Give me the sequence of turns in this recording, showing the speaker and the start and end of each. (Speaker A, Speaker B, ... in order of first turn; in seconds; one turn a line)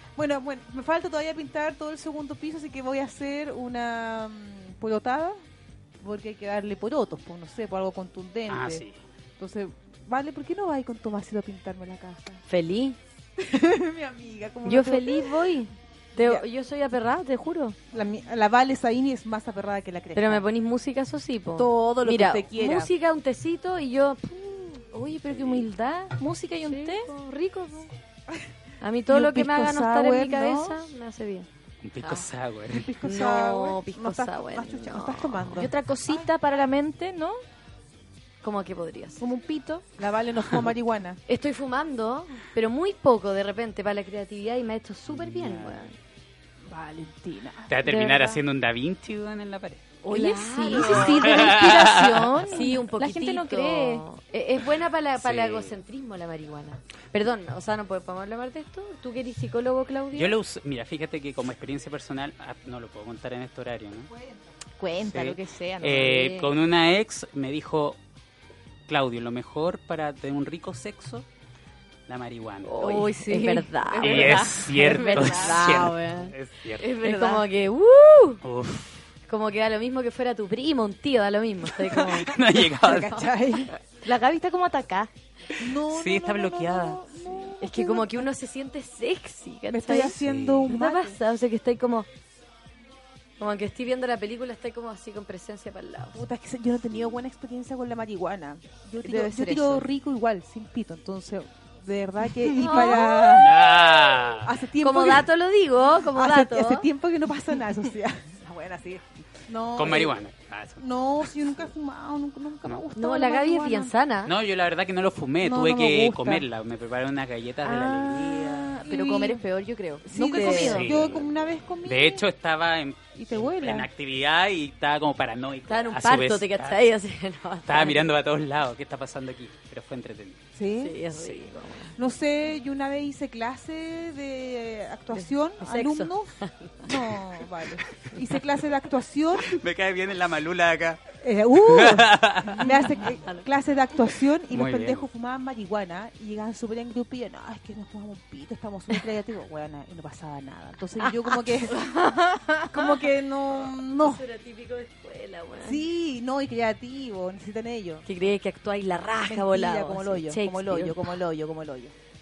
Speaker A: 0.1-5.4
Speaker A: 6.0-8.8
Speaker B: 8.5-9.0
Speaker A: 9.4-12.4
Speaker C: 12.5-13.0
Speaker A: 13.4-15.3
Speaker C: 14.6-17.8
Speaker A: 16.1-16.4
Speaker A: 17.9-20.4
Speaker C: 20.1-24.9
Speaker A: 21.6-22.9
Speaker D: 24.9-27.1
Speaker B: 25.3-25.6
Speaker C: 26.6-27.9
Speaker C: 28.8-31.5
Speaker A: 29.1-30.8
Speaker B: 31.8-32.9
Speaker C: 32.0-32.3
Speaker A: 32.7-36.3
Speaker C: 33.0-35.6
Speaker D: 35.5-37.4
Speaker C: 38.4-39.2
Speaker D: 39.2-39.9
Speaker A: 40.0-41.2
Speaker C: 41.3-45.9
Speaker B: 45.2-45.8
Speaker A: 46.7-48.2
Speaker B: 47.7-49.9
Speaker C: 47.9-48.4
Speaker D: 50.0-54.0
Speaker C: 50.1-51.6
Speaker B: 50.9-52.3
Speaker C: 52.5-60.4
Speaker B: 55.2-55.8
Speaker B: 60.1-64.1
Speaker A: 64.1-64.5
Speaker D: 64.8-66.5
Speaker B: 65.0-68.0
Speaker B: 68.9-71.2
Speaker B: 72.1-72.7
Speaker D: 72.7-75.9
Speaker C: 72.8-78.4
Speaker B: 74.0-76.8
Speaker B: 78.4-79.0
Speaker C: 79.3-82.4
Speaker B: 82.0-83.2
Speaker A: 82.2-83.7
Speaker D: 84.0-85.1
Speaker A: 85.6-88.3
Speaker B: 85.9-87.0
Speaker C: 87.6-92.1
Speaker A: 89.7-91.2
Speaker B: 90.1-90.7
Speaker C: 93.4-96.2
Speaker A: 96.1-105.3
Speaker D: 99.0-99.6
Speaker C: 102.5-103.4
Speaker B: 103.4-104.5
Speaker C: 104.8-106.9
Speaker A: 106.1-110.2
Speaker B: 109.8-110.8
Speaker A: 110.8-113.9
Speaker C: 113.0-114.3
Speaker B: 114.2-118.8
Speaker A: 115.4-116.4
Speaker D: 117.6-120.9
Speaker A: 118.8-119.4
Speaker A: 120.0-122.2
Speaker C: 120.3-120.7
Speaker B: 120.6-126.8
Speaker A: 123.2-123.9
Speaker C: 125.7-128.1
Speaker B: 127.7-130.4
Speaker A: 130.5-131.0
Speaker C: 130.8-131.9
Speaker A: 131.9-139.5
Speaker C: 135.1-137.1
Speaker B: 139.4-141.0
Speaker A: 141.2-154.2
Speaker B: 141.6-142.7
Speaker B: 144.5-145.1
Speaker C: 151.7-152.2
Speaker C: 153.7-155.8
Speaker A: 155.6-158.0
Speaker C: 158.1-161.2
Speaker A: 159.2-161.9